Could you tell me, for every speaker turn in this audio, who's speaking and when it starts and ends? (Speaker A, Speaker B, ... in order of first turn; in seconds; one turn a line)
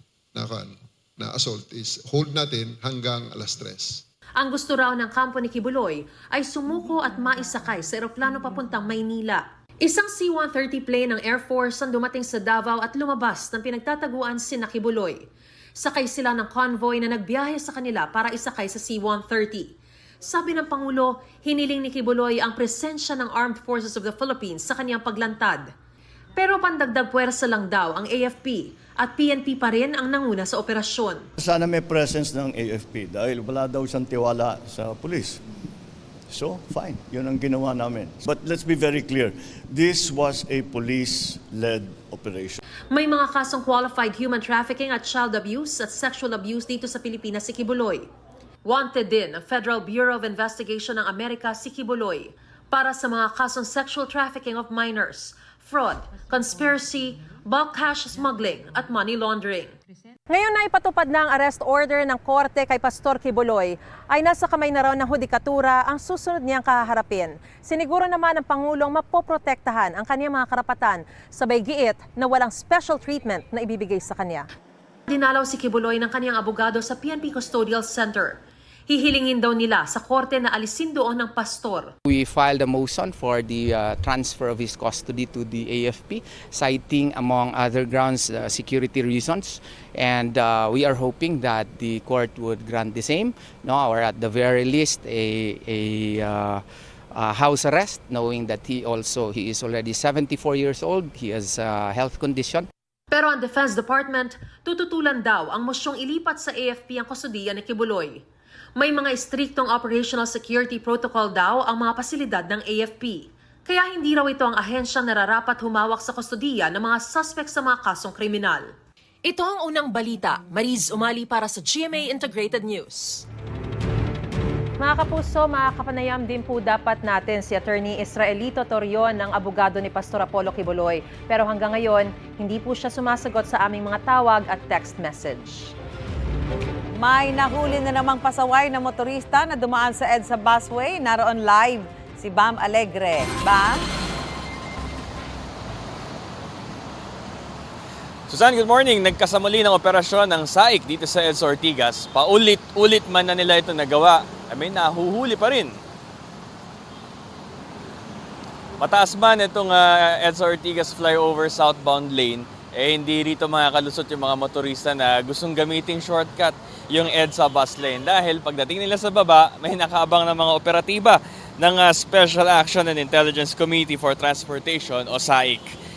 Speaker A: 0.3-4.0
Speaker B: 4.4-15.2
Speaker B: 15.8-25.7
Speaker B: 26.4-31.3
Speaker C: 31.4-35.4
Speaker C: 36.3-42.6
Speaker B: 42.9-48.1
Speaker B: 48.6-59.8
Speaker B: 60.3-74.5
Speaker B: 75.1-81.9
Speaker D: 82.1-102.7
Speaker B: 103.1-108.2
Speaker B: 108.8-118.7
Speaker B: 119.2-123.3
Speaker B: 124.8-135.7
Speaker E: 137.0-143.8
Speaker F: 148.3-155.8
Speaker F: 158.8-175.7